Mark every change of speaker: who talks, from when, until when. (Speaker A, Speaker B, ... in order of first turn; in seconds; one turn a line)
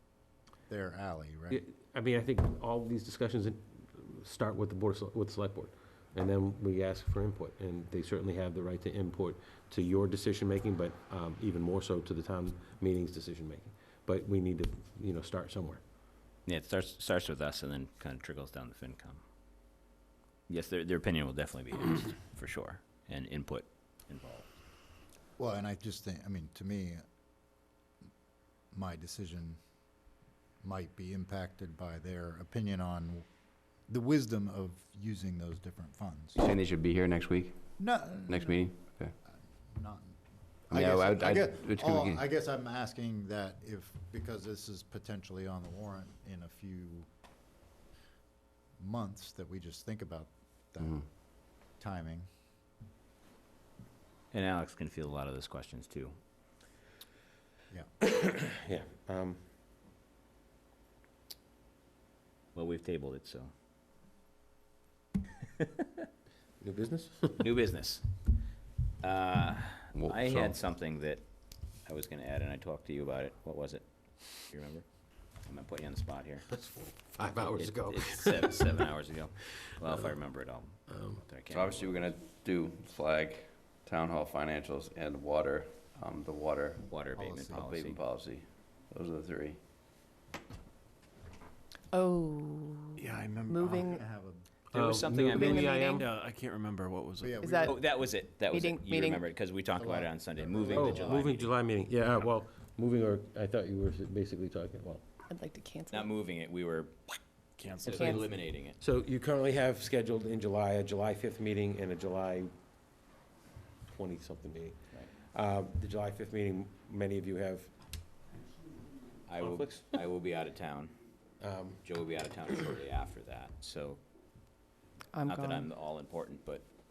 Speaker A: 0.7-1.6
Speaker B: 1.5-15.8
Speaker C: 16.4-19.2
Speaker C: 20.5-24.5
Speaker A: 25.4-27.0
Speaker A: 28.7-29.6
Speaker A: 30.6-33.2
Speaker A: 33.9-36.4
Speaker D: 36.4-37.6
Speaker A: 37.8-38.8
Speaker D: 38.3-39.1
Speaker A: 39.7-40.1
Speaker A: 40.7-47.1
Speaker D: 40.7-42.2
Speaker A: 48.8-51.0
Speaker A: 51.8-52.2
Speaker C: 54.3-56.1
Speaker B: 58.0-59.4
Speaker C: 62.5-63.5
Speaker C: 65.6-65.8
Speaker B: 66.6-67.5
Speaker C: 67.4-68.1
Speaker C: 69.0-71.2
Speaker D: 69.9-70.5
Speaker C: 71.8-74.8
Speaker C: 75.4-76.5
Speaker B: 76.5-78.6
Speaker C: 77.6-82.0
Speaker B: 80.9-81.2
Speaker D: 81.5-86.8
Speaker C: 86.9-88.0
Speaker A: 87.2-87.7
Speaker D: 87.5-89.6
Speaker E: 91.9-94.0
Speaker F: 93.0-94.0
Speaker A: 93.6-94.5
Speaker C: 94.7-95.8
Speaker B: 94.7-96.0
Speaker E: 95.3-96.0
Speaker F: 96.0-97.4
Speaker A: 97.2-97.8
Speaker E: 97.4-97.8
Speaker C: 97.6-101.5
Speaker E: 98.5-99.2
Speaker A: 99.8-101.3
Speaker B: 100.7-105.0
Speaker E: 105.3-106.1
Speaker C: 105.9-107.2
Speaker F: 107.6-108.2
Speaker C: 107.8-108.8
Speaker E: 107.9-108.2
Speaker B: 108.8-112.5
Speaker B: 113.9-117.7
Speaker C: 119.3-120.9
Speaker B: 119.4-119.9
Speaker B: 121.4-121.8
Speaker C: 121.8-124.0
Speaker E: 125.1-125.7
Speaker C: 125.2-126.6